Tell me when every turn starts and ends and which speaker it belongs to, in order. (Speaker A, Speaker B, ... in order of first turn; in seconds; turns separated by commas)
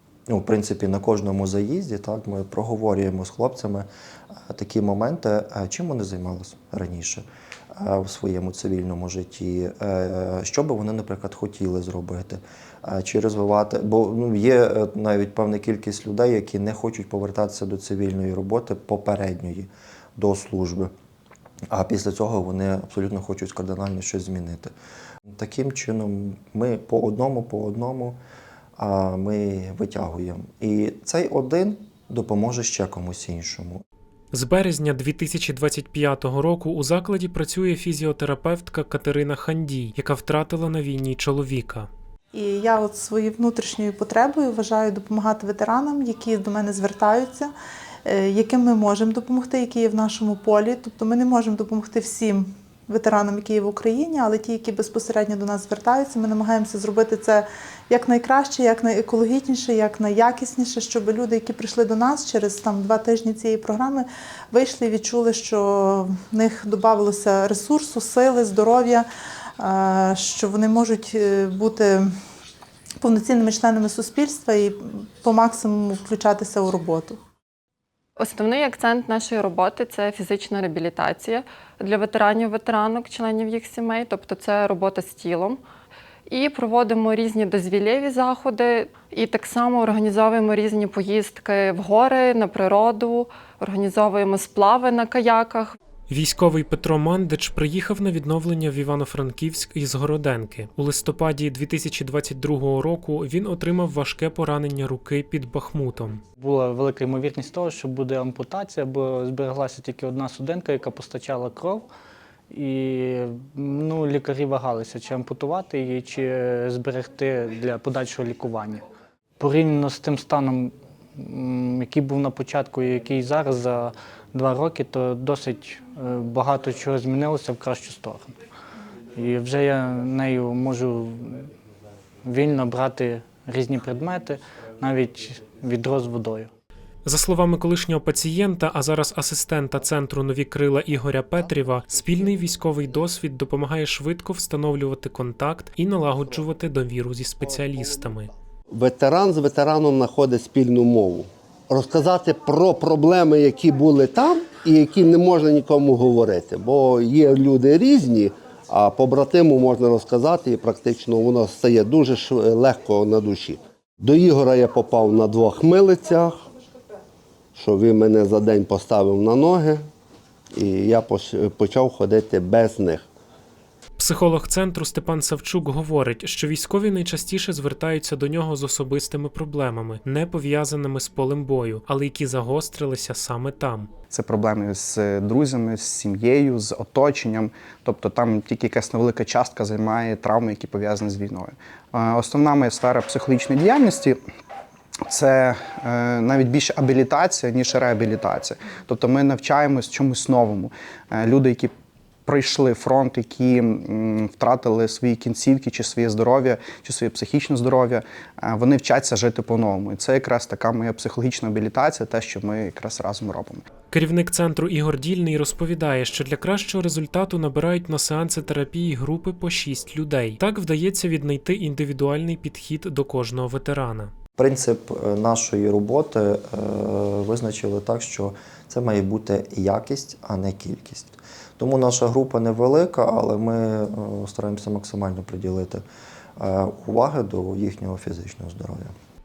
Speaker A: 0.3-3.9, Speaker A: 4.4-20.9, Speaker A: 21.7-24.7, Speaker A: 25.3-28.2, Speaker A: 28.8-33.8, Speaker B: 34.3-41.9, Speaker C: 42.3-47.5, Speaker C: 48.0-69.0, Speaker C: 69.6-72.1, Speaker C: 73.0-77.2, Speaker D: 78.2-85.6, Speaker D: 86.3-95.7, Speaker B: 96.1-106.2, Speaker E: 106.4-111.8, Speaker E: 112.5-118.8, Speaker E: 119.4-128.3, Speaker E: 129.1-131.5, Speaker E: 132.2-136.5, Speaker B: 137.0-148.3, Speaker F: 148.7-166.4, Speaker F: 167.6-169.8, Speaker F: 170.5-173.0, Speaker B: 174.0-183.9, Speaker G: 184.1-194.2, Speaker G: 195.1-201.7, Speaker G: 202.2-213.6, Speaker B: 213.9-224.1, Speaker A: 224.4-235.8, Speaker A: 236.4-238.9